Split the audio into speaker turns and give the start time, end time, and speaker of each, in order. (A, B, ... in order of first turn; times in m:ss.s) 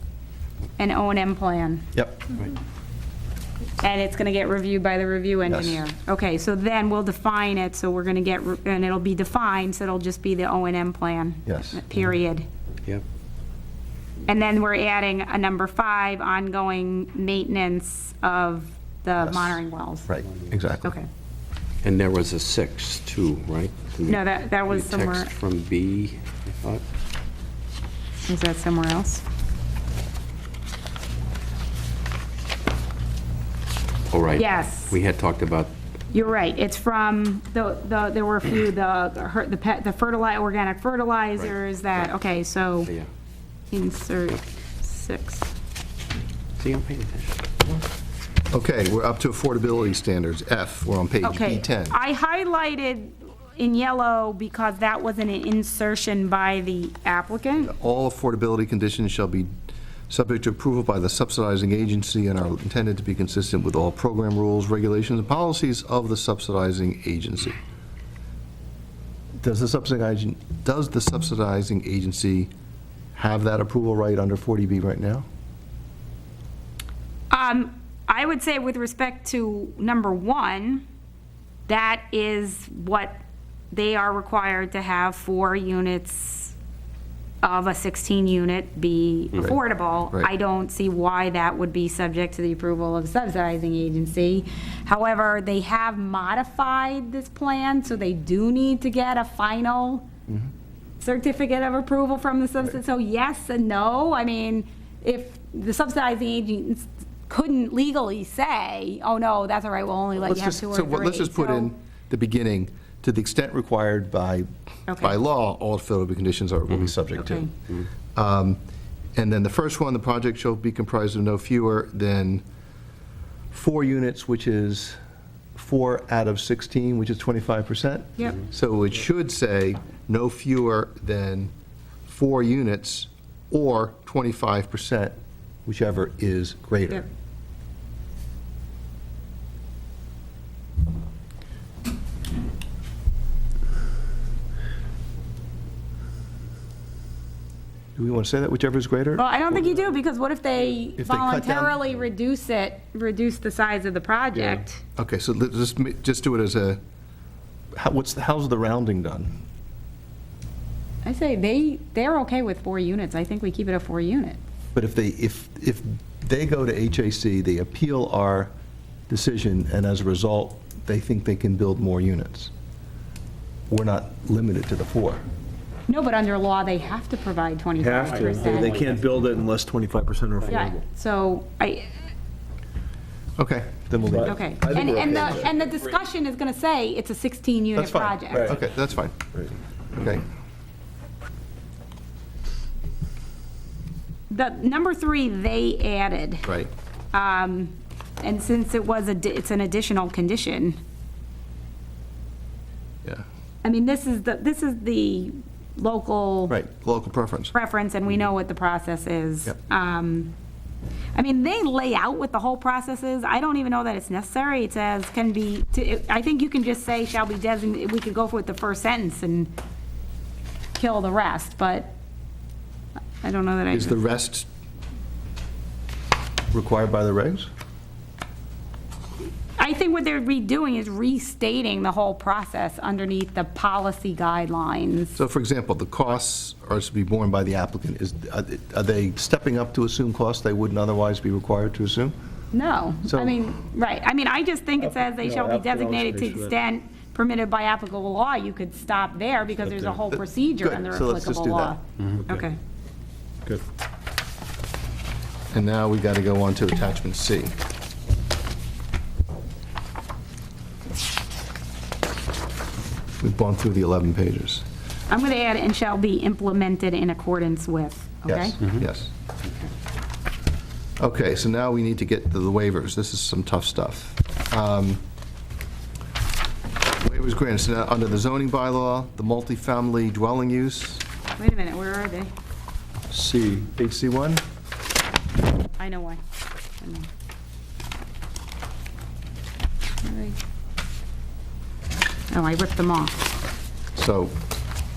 0:00.8-0:01.9 A
0:01.9-0:02.3 B
0:03.8-0:12.5 A
0:05.5-0:05.8 B
0:11.5-0:11.8 B
0:14.3-0:20.1 A
0:19.2-0:21.0 B
0:21.8-0:26.8 C
0:24.1-0:25.3 A
0:28.2-0:29.2 A
0:34.1-0:35.7 C
0:34.4-0:35.0 A
0:36.1-0:42.9 A
0:43.7-0:45.5 A
0:46.6-0:47.5 C
0:48.5-0:52.0 B
0:51.2-0:57.7 A
0:57.6-0:59.5 B
1:00.1-1:07.6 B
1:09.4-1:12.5 B
1:13.2-1:15.3 B
1:17.3-1:20.8 A
1:21.7-1:26.6 A
1:27.4-1:40.1 A
1:41.0-1:51.7 A
1:50.2-1:58.6 B
1:54.9-1:55.2 A
1:57.2-1:57.5 A
1:59.2-2:02.4 B
2:03.5-2:05.0 B
2:05.6-2:11.5 B
2:08.2-2:08.4 A
2:12.1-2:15.2 B
2:15.7-2:17.1 B
2:28.0-2:29.2 B
2:29.2-2:34.8 A
2:31.0-2:31.8 B
2:35.0-2:36.8 B
2:37.8-2:39.3 B
2:41.0-2:44.4 A
2:44.8-2:48.5 B
2:49.1-2:52.5 B
2:53.7-2:55.2 B
2:55.9-2:58.9 A
2:57.8-3:00.8 D
3:00.5-3:01.9 A
3:03.4-3:05.2 B
3:04.1-3:05.5 D
3:04.2-3:08.6 A
3:07.8-3:10.2 B
3:14.3-3:16.5 A
3:16.4-3:16.7 B
3:17.1-3:20.8 A
3:23.6-3:26.6 A
3:26.5-3:27.5 B
3:27.5-3:30.3 A
3:31.2-3:39.5 A
3:40.8-3:41.9 A
3:43.2-3:44.0 A
3:43.7-3:44.5 B
3:46.5-3:47.5 B
3:49.6-3:55.2 A
3:55.2-4:02.2 B
4:02.5-4:12.6 A
4:03.0-4:03.4 B
4:04.9-4:06.5 D
4:09.8-4:11.8 B
4:15.5-4:17.6 B
4:23.2-4:24.6 B
4:25.1-4:28.6 A
4:28.2-4:29.1 B
4:31.0-4:35.0 B
4:37.0-4:41.0 B
4:41.4-4:42.3 A
4:43.1-4:44.4 B
4:45.8-4:46.2 A
4:46.8-4:47.1 A
4:50.0-4:50.4 A
4:52.3-4:53.2 A
4:54.0-4:54.4 B